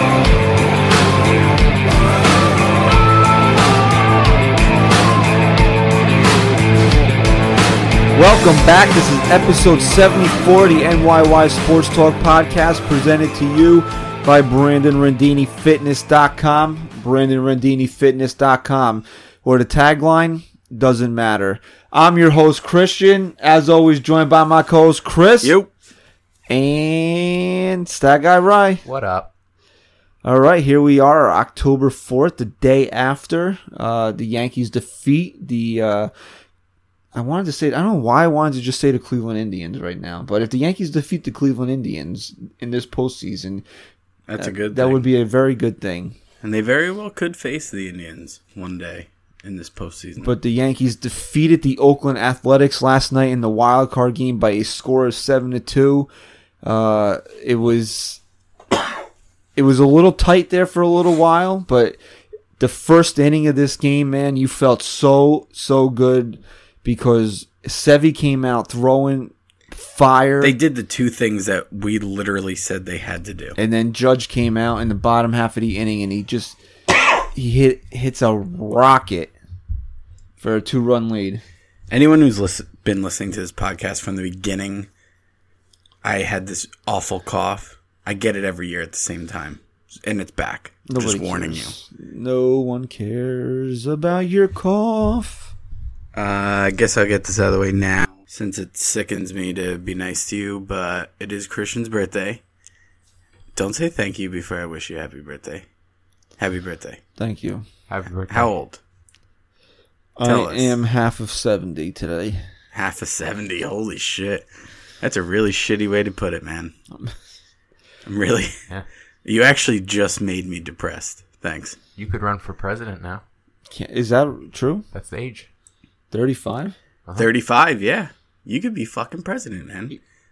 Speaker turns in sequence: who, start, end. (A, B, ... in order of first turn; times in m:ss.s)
0:08.1-0:25.6 A
0:25.4-0:25.7 B
0:26.5-0:28.8 A
0:28.8-0:29.3 C
0:30.2-0:36.1 A
0:37.1-0:43.6 A
0:44.3-0:45.0 B
0:44.4-0:46.2 A
0:46.4-0:50.3 B
0:50.2-0:56.1 A
0:56.6-0:58.2 A
0:59.6-1:02.0 A
1:02.6-1:10.6 A
1:10.4-1:13.6 B
1:13.6-1:16.6 A
1:17.3-1:19.3 A
1:20.4-1:21.4 A
1:21.9-1:24.9 B
1:26.0-1:31.7 B
1:30.9-1:35.5 A
1:36.1-1:42.4 B
1:43.5-1:45.6 B
1:46.4-1:47.0 B
1:47.2-1:47.6 A
1:47.9-1:48.5 C
1:48.3-1:48.8 B
1:50.2-1:52.4 A
1:50.2-1:50.7 B
1:52.7-1:54.5 B
1:55.0-1:56.7 B
1:58.0-1:58.5 B
1:59.2-2:01.8 B
2:02.0-2:03.2 C
2:03.7-2:04.8 A
2:04.9-2:05.5 C
2:06.1-2:06.7 A
2:07.2-2:10.0 B